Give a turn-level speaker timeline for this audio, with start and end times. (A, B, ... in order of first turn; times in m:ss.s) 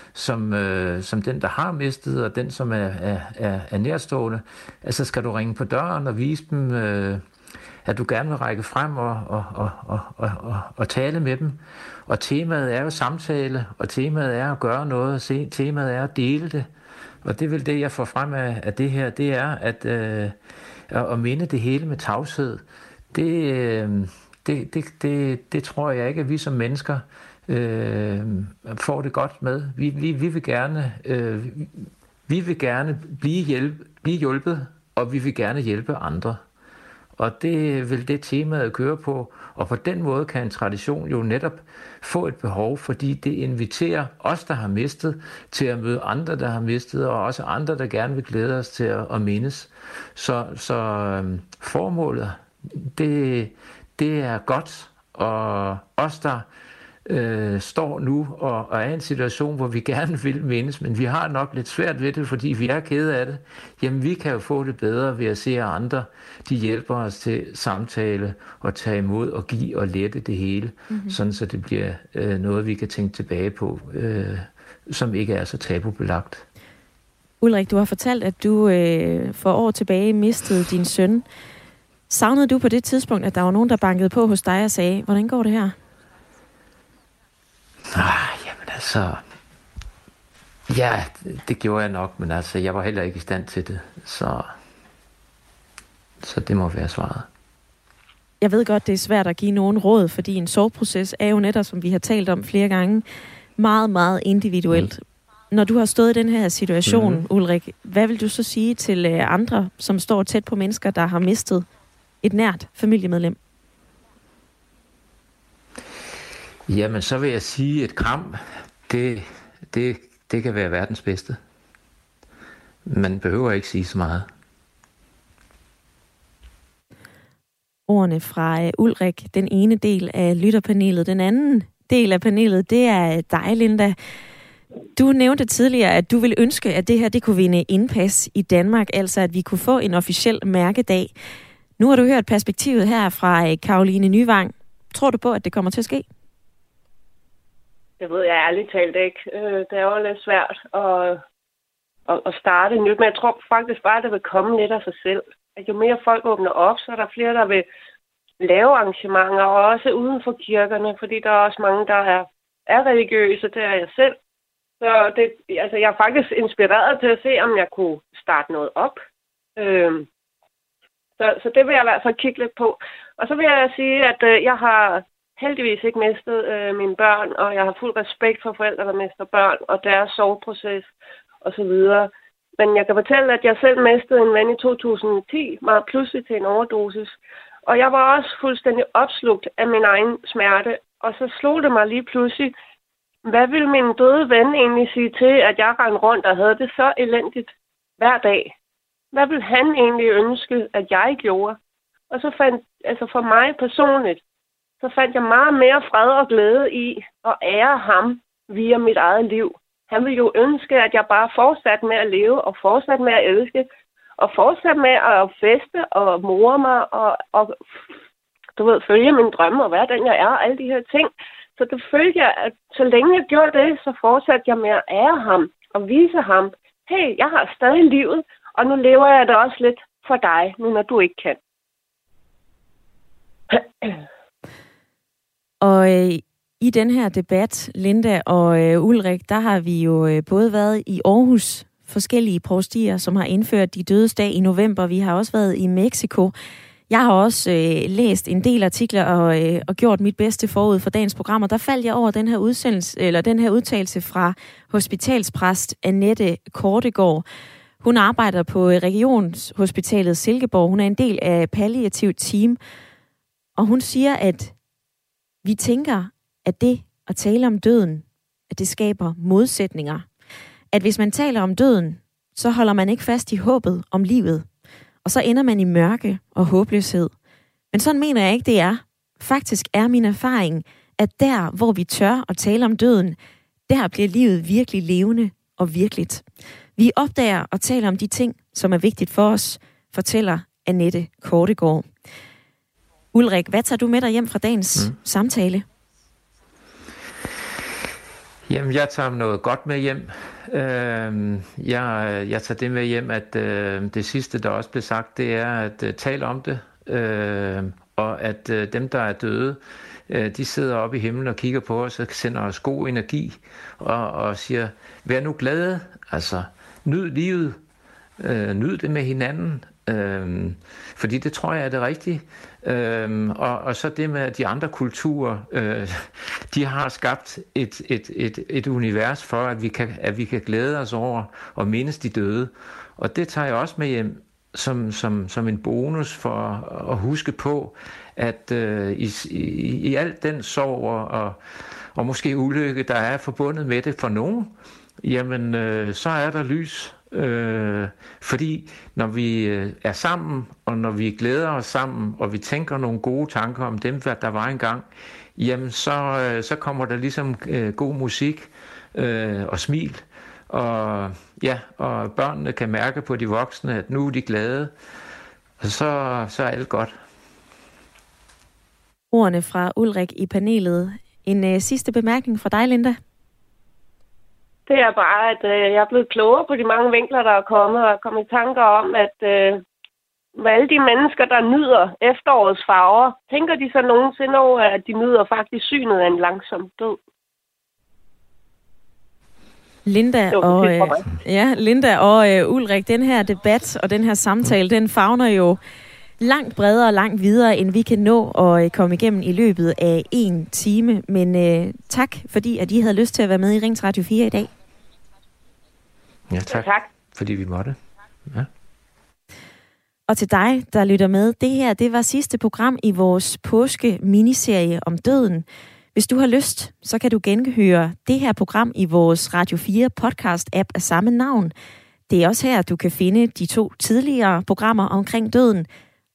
0:00.1-0:07.2 A
0:07.8-0:16.7 A
0:17.2-0:20.4 A
0:20.9-0:36.4 A
0:37.2-0:56.4 A
0:57.0-1:16.4 A
1:17.4-1:21.2 B
1:22.1-1:25.7 B
1:27.9-1:29.2 A
1:30.7-1:34.5 A
1:36.2-1:37.3 A
1:38.4-1:43.0 B
1:43.6-1:51.6 B
1:46.9-1:47.2 A
1:52.2-1:53.4 B
1:56.7-2:01.4 A
2:02.8-2:04.3 A
2:07.9-2:13.9 B
2:15.0-2:21.1 B
2:21.8-2:26.0 B
2:28.0-2:31.2 C
2:32.1-2:37.6 C
2:38.4-2:44.2 C
2:44.8-2:49.0 C
2:49.6-2:50.1 C
2:51.2-3:00.9 C
3:01.4-3:12.5 C
3:13.2-3:18.5 C
3:19.1-3:21.6 C
3:22.1-3:24.2 C
3:24.8-3:33.7 C
3:34.2-3:37.6 C
3:38.6-3:51.4 C
3:55.6-4:06.3 B
4:06.9-4:17.2 B
4:17.8-4:22.6 B
4:23.6-4:24.5 B
4:25.4-4:30.0 B
4:30.7-4:34.4 B
4:35.0-4:37.1 B
4:37.7-4:43.2 B
4:43.7-4:46.2 B
4:46.8-4:51.9 B
4:53.1-4:55.6 B
4:58.5-5:17.6 A
5:18.2-5:41.4 A
5:41.9-6:04.7 A
6:05.6-6:06.9 A
6:09.1-6:13.0 B
6:14.7-6:19.6 C
6:20.4-6:27.0 C
6:29.8-6:35.6 B
6:30.3-6:31.0 C
6:36.2-6:44.5 B
6:46.3-6:48.5 A
6:46.5-6:46.9 C
6:50.1-7:01.5 B
7:02.1-7:05.7 B